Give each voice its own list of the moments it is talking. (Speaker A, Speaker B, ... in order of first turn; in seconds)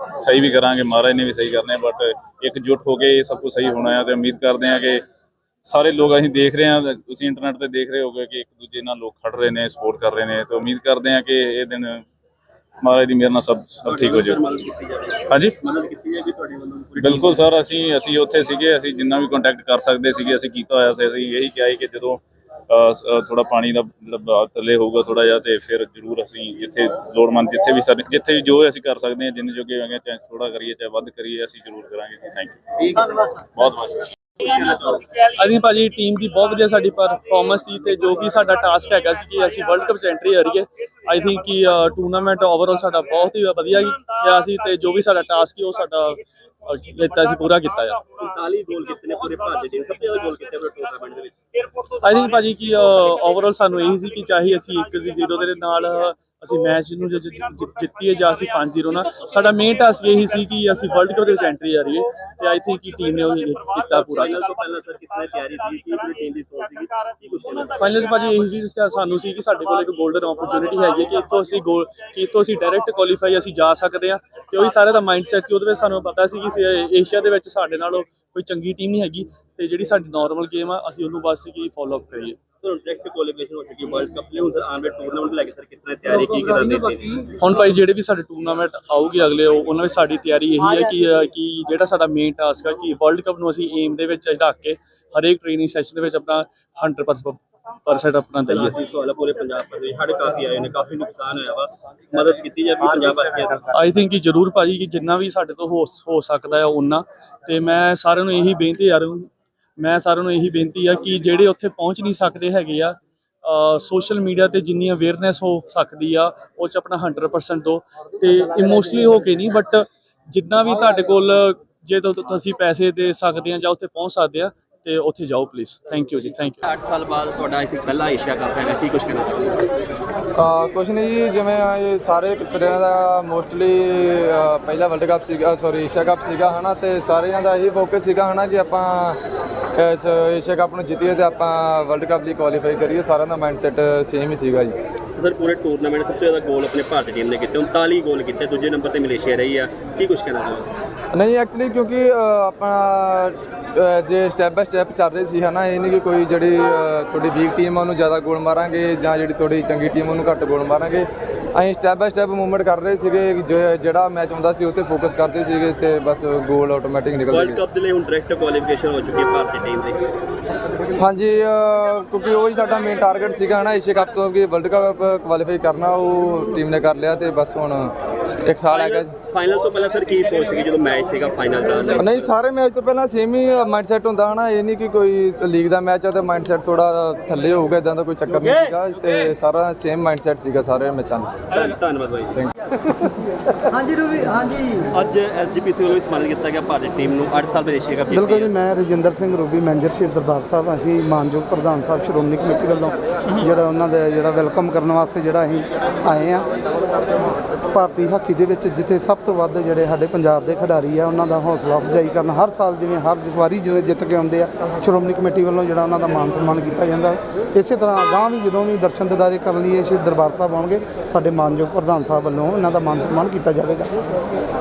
Speaker A: 0.2-5.0, 5.6-12.0, 12.8-14.4, 15.3-15.6, 17.0-34.1
Speaker B: 13.9-17.4, 34.4-35.0, 48.2-51.3, 63.8-68.1, 82.6-87.3, 98.4-103.7, 126.7-129.7, 145.2-150.7, 167.3-170.1, 178.7-182.3, 191.5-192.4, 194.9-198.5
Speaker C: 35.2-48.0, 52.0-64.3, 67.8-82.4, 87.4-98.8, 103.7-126.6
Speaker D: 130.4-139.2, 139.8-144.8, 151.1-167.6, 171.0-177.9, 178.4-179.1, 182.0-191.6
Speaker E: 198.1-206.5, 207.7-223.9